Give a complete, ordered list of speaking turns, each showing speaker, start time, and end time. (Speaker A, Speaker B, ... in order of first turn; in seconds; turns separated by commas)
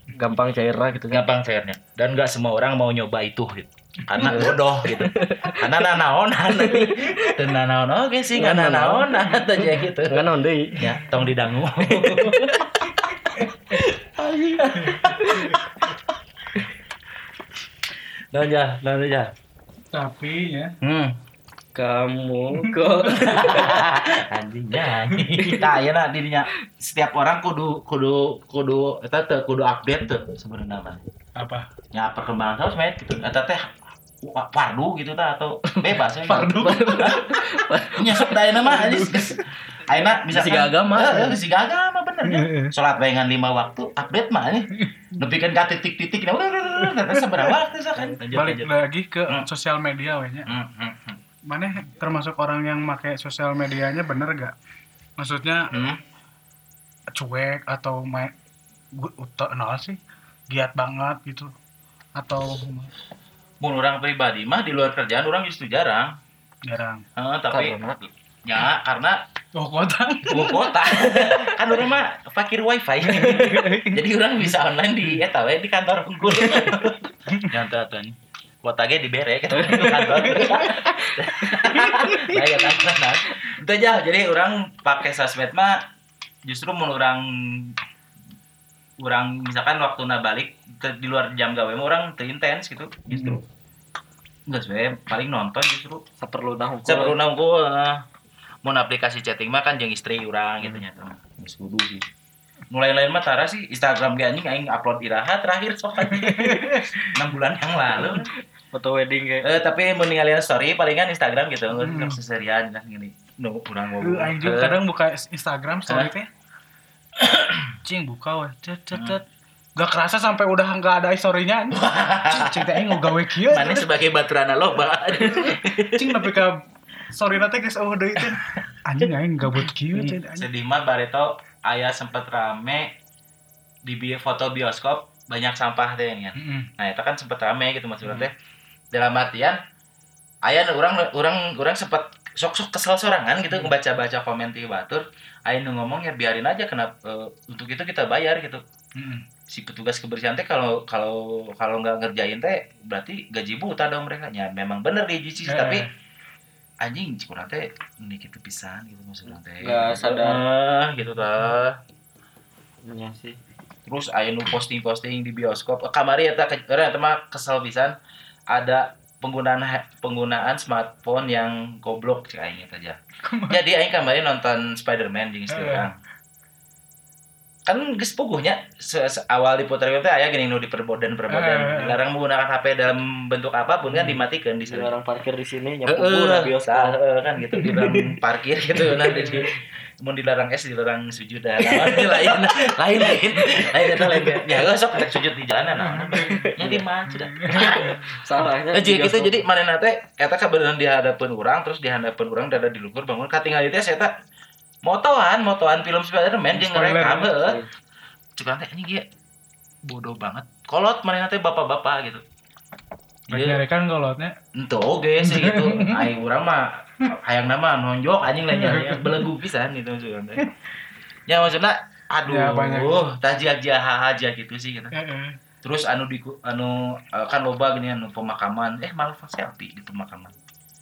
Speaker A: 0.1-1.3, Speaker B: 1.1-10.3, Speaker C: 4.1-4.5, Speaker A: 4.2-5.7, Speaker A: 6.5-7.4, Speaker C: 6.7-7.3, Speaker A: 8.3-10.9, Speaker B: 10.8-12.8, Speaker C: 10.9-11.3, Speaker A: 11.9-12.6, Speaker C: 12.8-13.8, Speaker B: 13.7-15.1, Speaker C: 14.6-15.9, Speaker A: 14.9-15.6, Speaker B: 18.3-19.3, Speaker C: 19.9-20.7, Speaker B: 20.8-21.2, Speaker A: 21.7-23.8, Speaker C: 22.6-23.1, Speaker B: 23.2-31.0, Speaker C: 25.1-25.6, Speaker C: 31.4-31.7, Speaker B: 31.9-37.2, Speaker A: 35.7-39.3, Speaker C: 36.2-37.4, Speaker B: 38.0-48.7, Speaker A: 40.3-41.4, Speaker C: 42.2-42.7, Speaker C: 44.7-45.1, Speaker C: 46.8-47.5, Speaker C: 48.3-50.5, Speaker B: 50.5-51.2, Speaker C: 51.5-54.5, Speaker C: 55.2-55.7, Speaker B: 55.7-56.0, Speaker C: 57.1-58.3, Speaker C: 58.9-60.0, Speaker C: 60.5-61.5, Speaker C: 62.1-62.9, Speaker B: 63.6-66.1, Speaker C: 66.7-67.0, Speaker B: 67.2-69.2, Speaker A: 67.5-68.0, Speaker C: 69.5-71.5, Speaker B: 70.3-85.8, Speaker C: 73.1-74.0, Speaker C: 76.4-76.7, Speaker A: 79.5-82.4, Speaker C: 79.7-80.9, Speaker C: 81.7-82.4, Speaker B: 86.4-87.8, Speaker B: 89.0-93.4, Speaker C: 93.1-93.4, Speaker B: 94.5-96.0, Speaker A: 96.2-97.2, Speaker B: 96.9-98.0, Speaker B: 98.6-102.1, Speaker B: 102.7-106.5, Speaker C: 106.1-107.2, Speaker A: 106.3-106.6, Speaker B: 107.1-108.3, Speaker A: 107.9-109.5, Speaker B: 109.4-114.8, Speaker C: 111.7-112.2, Speaker C: 114.0-116.3, Speaker B: 117.2-117.7, Speaker C: 117.8-119.2, Speaker B: 118.9-119.2, Speaker C: 119.8-123.9, Speaker B: 121.8-126.3, Speaker C: 125.9-130.5, Speaker B: 130.3-132.9, Speaker B: 133.9-138.3, Speaker C: 136.3-136.7, Speaker B: 138.9-139.6, Speaker B: 140.4-148.6, Speaker C: 149.0-149.3, Speaker B: 149.5-155.8, Speaker C: 155.4-155.9, Speaker B: 156.8-161.8, Speaker A: 159.6-160.4, Speaker A: 162.8-163.4, Speaker B: 163.9-167.9, Speaker B: 168.5-173.0, Speaker C: 173.2-173.6, Speaker B: 173.5-175.9, Speaker C: 175.5-175.9, Speaker B: 177.7-184.9, Speaker C: 181.3-182.0, Speaker A: 184.7-187.0, Speaker B: 185.9-198.0, Speaker C: 187.6-188.1, Speaker C: 189.0-189.6, Speaker A: 193.4-194.4, Speaker C: 194.1-194.4, Speaker C: 195.8-196.5, Speaker A: 196.4-196.8, Speaker C: 197.2-198.1, Speaker A: 197.6-199.4, Speaker B: 198.7-204.1, Speaker B: 204.8-207.6, Speaker C: 206.5-207.4, Speaker A: 207.4-207.7, Speaker B: 208.4-209.1, Speaker B: 209.8-212.2, Speaker C: 213.3-214.3, Speaker B: 213.3-213.6, Speaker B: 214.5-220.4, Speaker C: 215.2-216.1, Speaker C: 218.5-219.3, Speaker B: 221.3-224.9, Speaker C: 222.2-223.0, Speaker C: 224.9-225.4, Speaker B: 225.6-230.3